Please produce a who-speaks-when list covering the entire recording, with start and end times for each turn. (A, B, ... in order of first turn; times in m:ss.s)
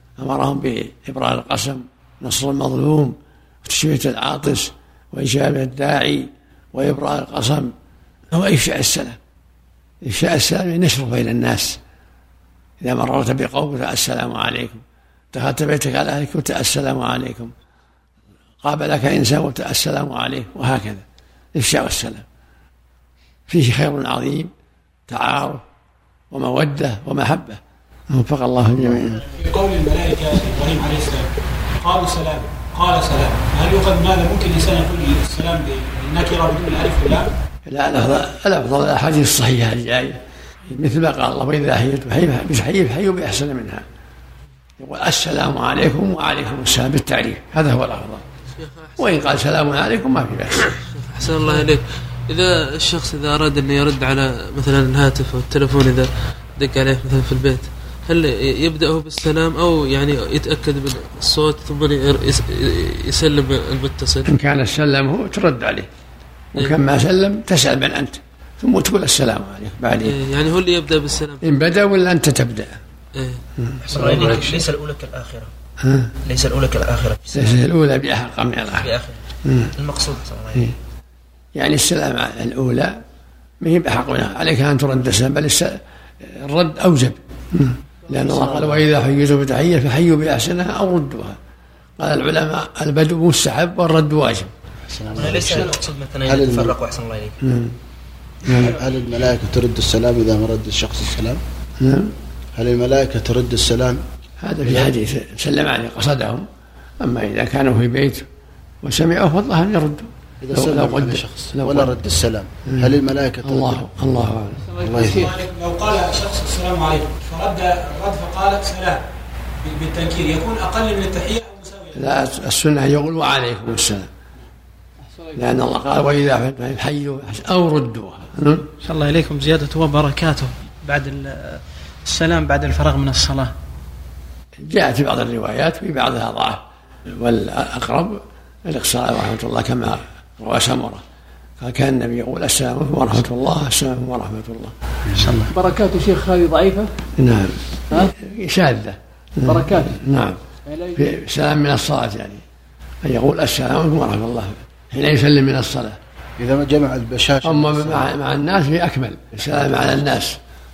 0:00.2-0:07.7 A
0:08.3-0:09.2 A
0:10.0-0:11.8 A
0:12.8-0:17.5 A
0:18.6-0:22.2 A
0:23.5-0:24.5 A
0:25.1-0:25.6 A
0:26.3-0:29.2 A
0:28.8-0:29.2 B
0:29.2-0:31.3 C
0:31.8-0:37.3 C
0:37.6-0:43.8 A
0:44.8-0:48.2 A
0:48.6-0:49.3 D
0:49.0-0:50.8 A
0:51.0-1:04.3 D
1:04.2-1:05.9 A
1:06.5-1:10.2 A
1:10.0-1:11.4 D
1:11.4-1:12.8 A
1:13.2-1:13.4 D
1:13.6-1:14.7 A
1:13.8-1:15.5 E
1:15.8-1:16.1 A
1:16.2-1:17.6 E
1:17.3-1:18.9 A
1:18.7-1:19.2 E
1:19.4-1:19.7 A
1:19.8-1:20.7 E
1:21.5-1:23.0 A
1:23.6-1:31.4 A
1:28.4-1:28.7 B
1:32.0-1:34.5 A
1:34.9-1:36.8 B
1:35.2-1:37.4 E
1:37.4-1:37.8 A
1:38.5-1:41.4 B
1:41.8-1:42.1 A
1:42.6-1:44.0 B
1:44.4-1:46.4 A
1:47.0-1:48.2 A
1:48.8-1:52.0 A
1:50.4-1:53.8 B
1:52.7-1:54.8 A
1:54.8-1:55.3 B
1:54.8-1:55.4 F
1:55.0-1:59.0 C
1:59.6-2:02.0 C
2:02.0-2:04.1 A
2:05.3-2:08.7 A
2:08.8-2:11.3 F
2:12.1-2:13.5 F
2:14.6-2:16.6 A
2:17.2-2:21.0 A
2:21.6-2:24.7 A
2:25.1-2:25.5 B
2:25.5-2:26.9 F
2:27.2-2:30.4 A
2:29.5-2:29.9 F
2:30.9-2:32.4 A
2:33.0-2:36.0 A
2:36.4-2:38.1 B
2:37.4-2:40.4 A